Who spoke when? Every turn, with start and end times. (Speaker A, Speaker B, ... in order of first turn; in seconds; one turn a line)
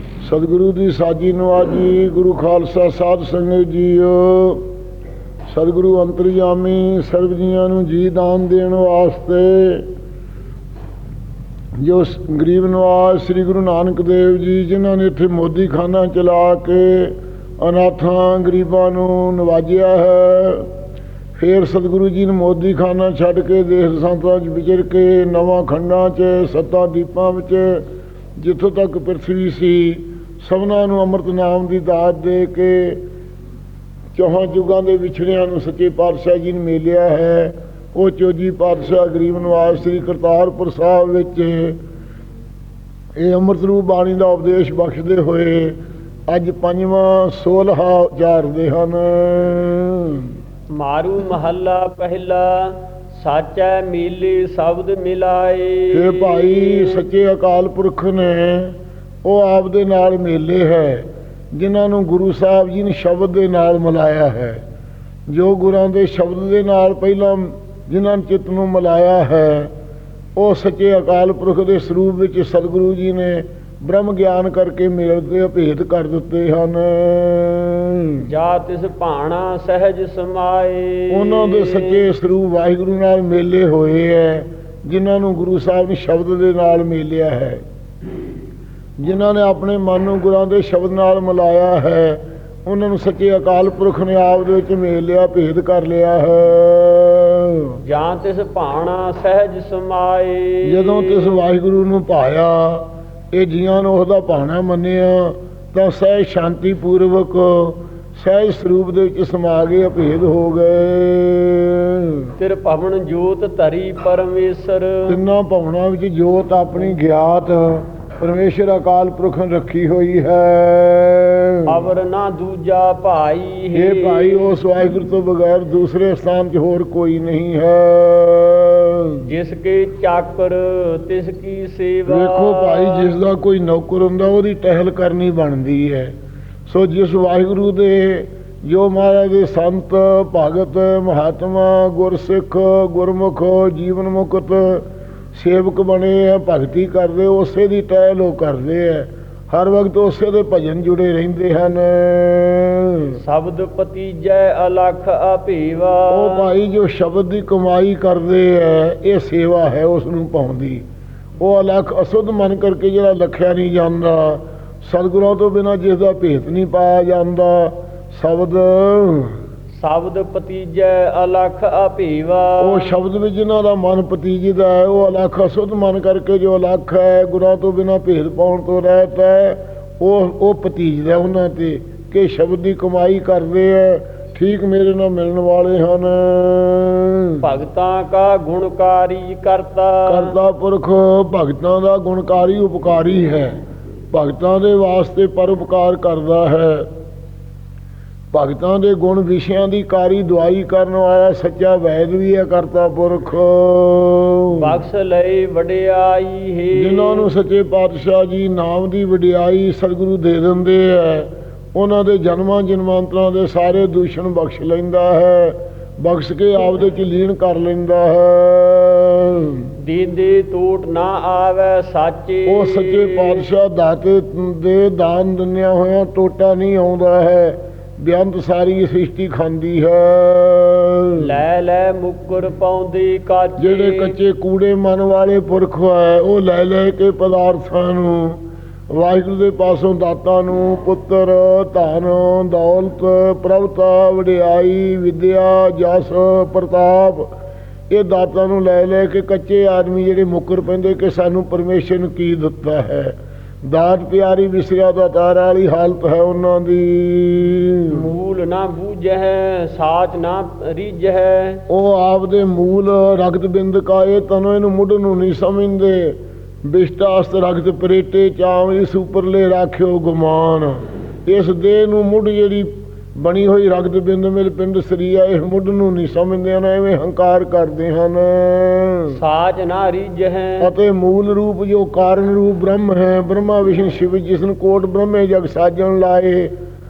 Speaker A: 0.2-4.7
Speaker A: 5.5-9.9
Speaker A: 11.8-20.7
Speaker A: 21.4-27.8
Speaker A: 28.4-33.0
Speaker A: 34.1-41.8
Speaker A: 43.2-45.8
Speaker A: 46.3-50.4
Speaker B: 50.7-57.0
Speaker A: 55.9-64.6
Speaker A: 65.3-69.7
Speaker A: 70.4-78.2
Speaker B: 78.2-82.1
Speaker A: 81.1-87.6
Speaker A: 89.0-97.8
Speaker B: 97.8-101.5
Speaker A: 100.7-112.3
Speaker B: 112.4-115.2
Speaker A: 115.1-121.7
Speaker B: 121.7-124.5
Speaker A: 123.7-129.2
Speaker B: 129.2-133.1
Speaker A: 132.1-136.1
Speaker A: 136.7-153.2
Speaker B: 153.2-156.5
Speaker A: 156.1-160.8
Speaker A: 161.4-169.4
Speaker B: 169.7-173.0
Speaker A: 172.6-187.4
Speaker B: 187.4-190.3
Speaker A: 190.1-193.6
Speaker A: 194.1-196.9
Speaker A: 198.3-204.7
Speaker B: 204.6-207.3
Speaker A: 206.8-219.7
Speaker B: 219.8-223.4
Speaker A: 222.5-231.3
Speaker B: 231.2-234.2
Speaker A: 233.6-247.3
Speaker A: 247.9-258.1
Speaker B: 257.9-261.6
Speaker A: 261.7-279.2
Speaker B: 279.1-280.7
Speaker A: 280.6-286.5